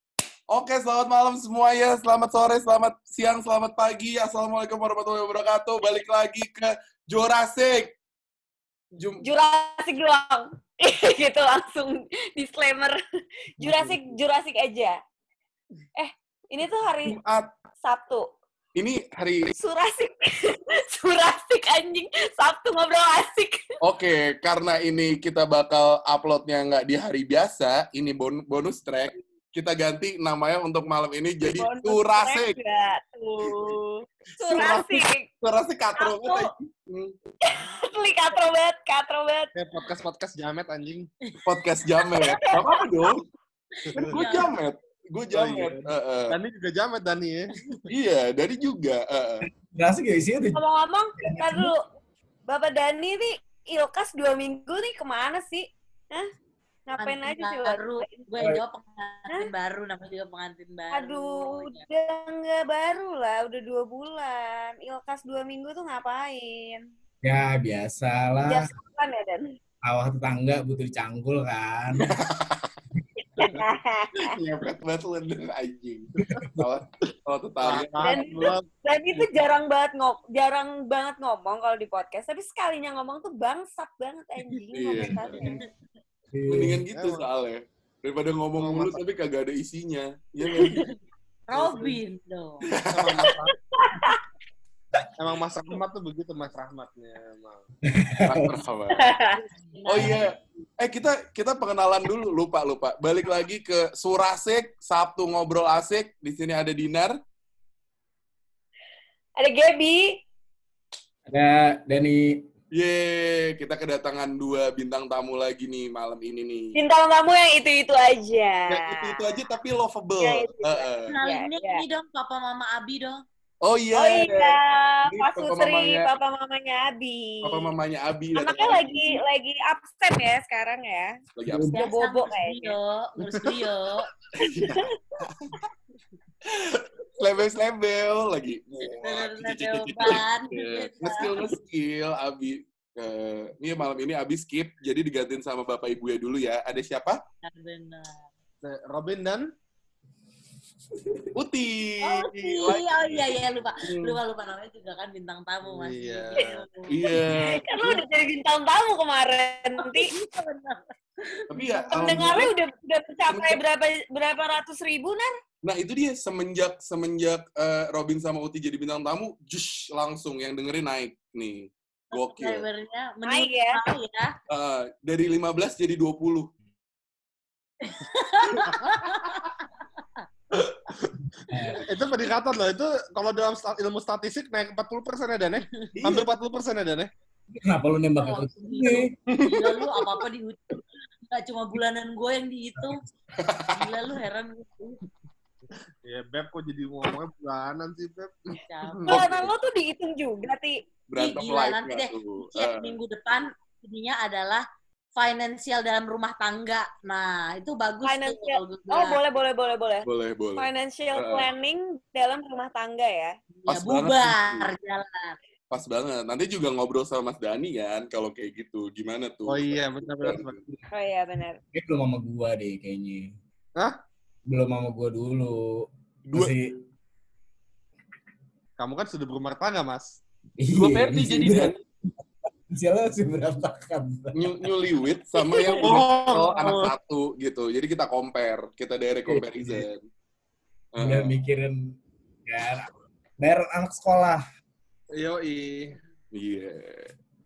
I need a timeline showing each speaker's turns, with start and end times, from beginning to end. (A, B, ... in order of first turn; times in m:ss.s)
0:00.5-0:08.0 A
0:09.0-0:09.2 A
0:09.2-0:13.0 B
0:13.6-0:15.0 B
0:13.6-0:14.1 A
0:16.0-0:17.2 B
0:17.0-0:17.5 A
0:17.8-0:18.3 B
0:18.8-0:19.5 A
0:19.6-0:23.6 B
0:23.8-0:32.6 A
0:31.5-0:35.3 B
0:34.3-0:37.2 A
0:36.0-0:36.5 C
0:37.4-0:39.5 B
0:39.6-0:41.1 D
0:41.4-0:43.3 A
0:42.2-0:42.7 B
0:43.9-0:46.4 A
0:44.1-0:44.5 C
0:45.3-0:47.9 D
0:47.9-0:49.5 A
0:49.4-0:50.6 E
0:50.5-0:51.9 B
0:51.2-0:51.7 E
0:52.5-0:56.3 B
0:56.9-0:58.5 B
0:57.0-1:01.8 C
1:00.9-1:06.9 B
1:07.2-1:08.7 E
1:08.4-1:09.5 B
1:09.8-1:12.1 E
1:12.0-1:12.7 A
1:13.4-1:14.3 B
1:14.2-1:18.5 A
1:17.6-1:18.7 D
1:18.0-1:25.6 B
1:24.7-1:25.4 A
1:25.3-1:25.7 D
1:26.3-1:26.8 E
1:26.5-1:30.9 A
1:26.9-1:27.2 D
1:28.6-1:29.0 D
1:31.5-1:32.7 C
1:31.5-1:32.0 D
1:32.7-1:33.4 A
1:32.9-1:33.5 D
1:33.7-1:34.2 B
1:35.2-1:37.6 D
1:37.9-1:38.6 E
1:38.3-1:39.1 A
1:38.9-1:39.4 B
1:39.7-1:40.3 C
1:39.9-1:47.2 A
1:49.4-1:50.2 B
1:51.3-1:52.4 E
1:52.7-1:56.8 A
1:56.8-1:59.2 B
1:58.7-2:01.2 A
2:00.2-2:01.8 B
2:01.1-2:03.2 C
2:03.6-2:06.1 A
2:04.0-2:07.7 B
2:07.4-2:09.2 A
2:08.4-2:11.2 B
2:11.4-2:11.7 A
2:11.7-2:12.8 B
2:11.7-2:14.1 C
2:14.4-2:15.6 A
2:14.4-2:14.8 B
2:16.5-2:27.2 A
2:19.0-2:21.3 C
2:27.4-2:28.2 C
2:28.6-2:29.5 D
2:31.4-2:34.2 A
2:32.0-2:37.0 C
2:35.6-2:36.6 D
2:36.9-2:38.0 A
2:37.3-2:40.1 B
2:39.8-2:42.4 C
2:41.5-2:42.5 A
2:41.9-2:45.3 B
2:43.3-2:43.6 A
2:45.6-2:52.7 A
2:52.1-2:54.4 C
2:53.2-2:53.8 B
2:54.5-2:56.5 A
2:57.8-3:00.2 C
3:01.5-3:01.8 E
3:01.8-3:07.1 D
3:06.0-3:06.3 A
3:07.5-3:09.2 E
3:08.2-3:13.0 C
3:09.3-3:10.0 A
3:13.4-3:13.8 A
3:13.7-3:15.0 C
3:16.0-3:18.4 D
3:18.6-3:19.2 C
3:19.0-3:19.5 A
3:19.1-3:20.8 B
3:21.1-3:23.0 A
3:21.2-3:24.6 C
3:25.2-3:29.2 C
3:28.0-3:33.3 B
3:30.1-3:31.5 A
3:33.6-3:35.4 C
3:33.7-3:34.7 A
3:35.7-3:40.6 A
3:39.5-3:40.8 D
3:40.9-3:41.6 B
3:41.7-3:43.3 E
3:44.5-3:46.8 E
3:48.8-3:50.2 D
3:50.6-3:51.8 E
3:50.7-3:51.8 A
3:52.7-3:54.7 E
3:54.3-4:00.0 A
3:55.6-3:56.9 D
3:59.3-3:59.9 E
4:01.0-4:01.4 A
4:01.0-4:02.9 E
4:03.4-4:04.4 E
4:05.1-4:06.0 D
4:06.3-4:07.1 A